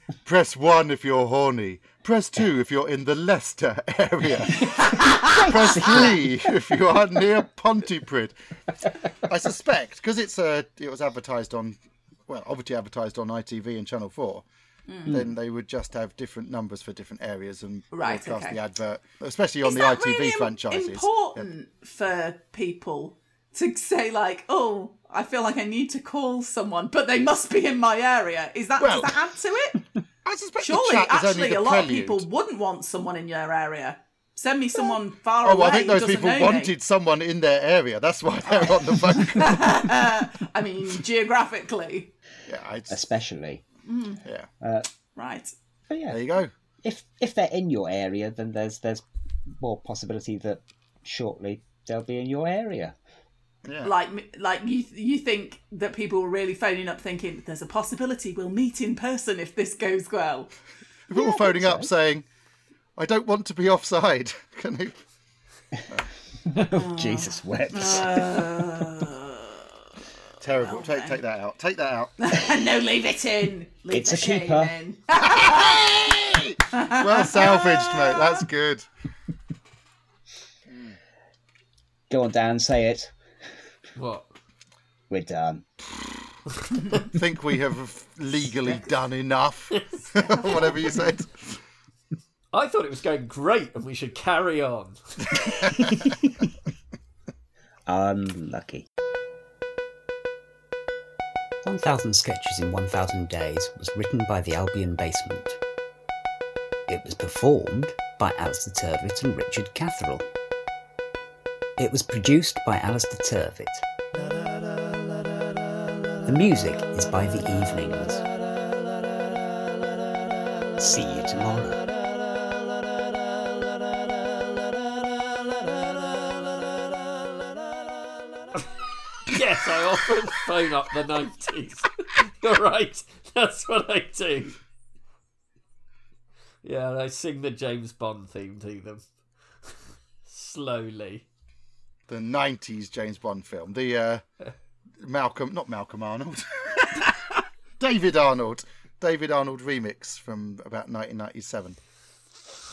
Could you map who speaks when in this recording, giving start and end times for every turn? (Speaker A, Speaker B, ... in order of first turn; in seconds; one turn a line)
Speaker A: 0.2-14.4
Speaker B: 4.5-5.5
Speaker C: 5.2-6.2
Speaker B: 14.9-15.2
Speaker A: 15.1-21.5
Speaker B: 17.9-18.6
Speaker B: 19.6-29.9
Speaker A: 28.8-29.2
Speaker A: 30.2-32.2
Speaker B: 30.6-36.7
Speaker A: 35.4-39.9
Speaker B: 39.4-42.1
Speaker A: 42.5-43.0
Speaker C: 42.9-43.6
Speaker B: 43.9-44.2
Speaker C: 44.6-44.9
Speaker B: 45.2-45.5
Speaker C: 45.9-46.2
Speaker A: 46.1-46.5
Speaker C: 46.8-49.0
Speaker C: 49.6-53.0
Speaker A: 53.6-54.0
Speaker B: 53.8-60.5
Speaker A: 61.1-62.3
Speaker C: 61.3-61.9
Speaker A: 63.0-64.9
Speaker C: 66.5-68.4
Speaker B: 66.7-69.6
Speaker A: 70.4-72.1
Speaker B: 70.6-71.2
Speaker B: 72.2-76.0
Speaker C: 73.9-74.8
Speaker A: 75.3-78.9
Speaker B: 76.7-78.4
Speaker A: 80.7-81.0
Speaker C: 82.1-83.1
Speaker D: 84.0-84.3
Speaker C: 85.1-85.7
Speaker A: 87.0-91.6
Speaker B: 90.2-90.8
Speaker D: 92.5-96.0
Speaker C: 97.9-98.9
Speaker C: 101.6-105.6
Speaker C: 106.9-110.3
Speaker C: 111.8-113.8
Speaker C: 116.2-118.2
Speaker C: 120.8-121.8
Speaker D: 129.3-131.9
Speaker D: 132.4-134.6
Speaker D: 136.6-139.1
Speaker D: 140.2-141.2
Speaker A: 142.1-144.2
Speaker A: 145.0-147.0
Speaker A: 147.8-151.8